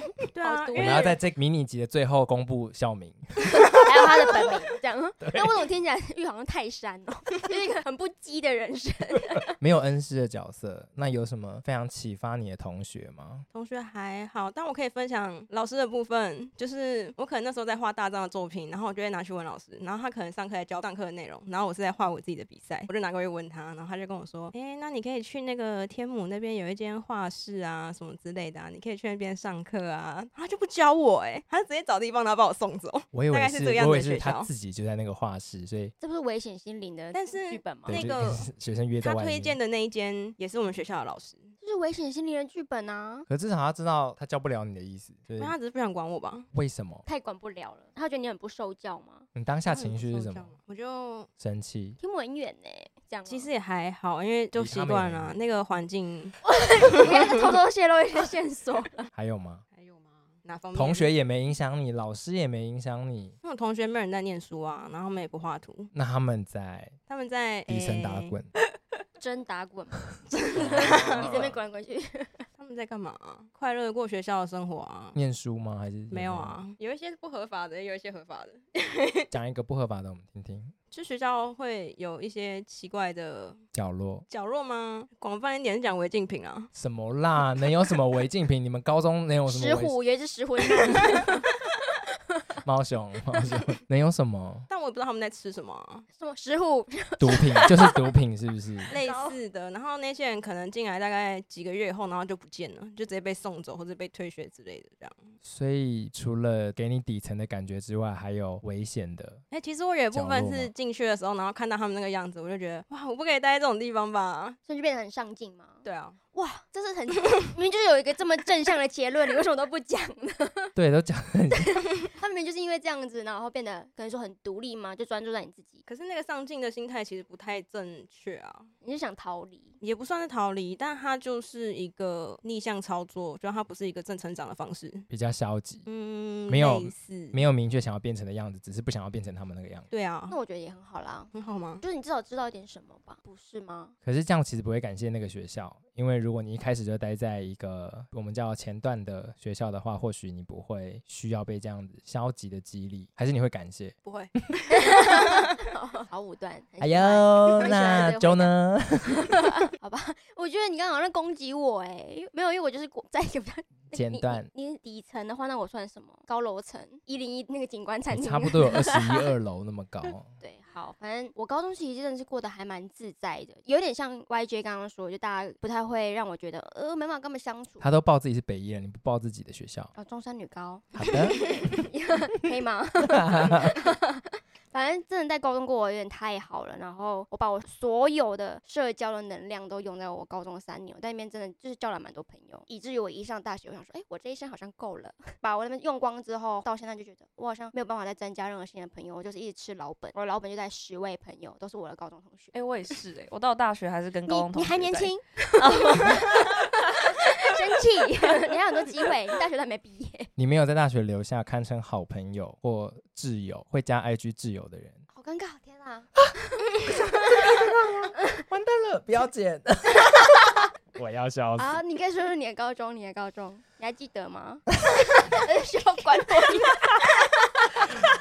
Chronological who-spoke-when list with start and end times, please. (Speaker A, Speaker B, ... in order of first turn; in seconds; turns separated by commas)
Speaker A: 0.3-1.2, Speaker B: 0.3-1.1, Speaker C: 0.8-3.8, Speaker B: 3.7-9.5, Speaker C: 5.2-5.5, Speaker C: 9.6-13.4, Speaker A: 13.5-34.5, Speaker C: 33.1-35.9, Speaker B: 36.0-38.1, Speaker A: 37.1-38.4, Speaker C: 37.9-39.6, Speaker A: 39.0-41.5, Speaker B: 41.6-43.3, Speaker C: 43.3-45.5, Speaker A: 45.4-46.5, Speaker C: 46.5-47.0, Speaker B: 47.0-49.3, Speaker C: 49.3-50.5, Speaker A: 49.7-51.3, Speaker C: 51.4-52.0, Speaker B: 52.0-53.5, Speaker A: 53.3-56.3, Speaker C: 54.5-55.4, Speaker B: 56.4-59.0, Speaker C: 59.1-59.6, Speaker A: 59.7-61.1, Speaker C: 60.7-63.4, Speaker A: 63.4-65.9, Speaker C: 65.9-67.0, Speaker A: 67.1-68.3, Speaker C: 67.7-68.5, Speaker B: 69.2-72.5, Speaker C: 70.5-71.6, Speaker A: 70.6-71.3, Speaker A: 72.6-75.2, Speaker C: 75.1-76.6, Speaker A: 76.1-79.3, Speaker C: 79.3-80.7, Speaker A: 80.9-83.6, Speaker C: 83.7-84.3, Speaker A: 84.3-86.7, Speaker C: 86.7-90.0, Speaker B: 89.5-91.5, Speaker C: 92.6-94.7, Speaker A: 94.7-96.0, Speaker B: 96.1-97.7, Speaker C: 97.2-99.0, Speaker A: 98.9-105.3, Speaker B: 98.9-99.4, Speaker C: 105.4-109.4, Speaker A: 109.5-114.6, Speaker C: 110.1-110.7, Speaker B: 114.6-120.7, Speaker A: 115.8-116.2, Speaker C: 120.7-121.7, Speaker B: 121.5-125.8, Speaker A: 125.9-128.7, Speaker B: 128.8-129.8, Speaker A: 129.8-135.1, Speaker C: 135.1-135.9, Speaker A: 135.8-137.4, Speaker C: 136.5-139.9, Speaker A: 139.9-140.4, Speaker B: 140.3-143.9, Speaker A: 141.3-141.8, Speaker C: 144.0-153.9, Speaker A: 154.0-155.0, Speaker B: 154.7-158.5, Speaker C: 156.8-159.4, Speaker B: 159.3-169.2, Speaker C: 163.9-164.5, Speaker C: 168.1-170.3, Speaker B: 170.4-177.9, Speaker C: 177.8-179.9, Speaker B: 179.9-202.6, Speaker C: 180.9-181.8, Speaker C: 183.1-183.7, Speaker D: 202.5-206.6, Speaker B: 204.3-210.3, Speaker C: 210.4-215.0, Speaker B: 215.1-216.1, Speaker C: 217.4-220.2, Speaker C: 220.9-221.8, Speaker B: 221.6-227.2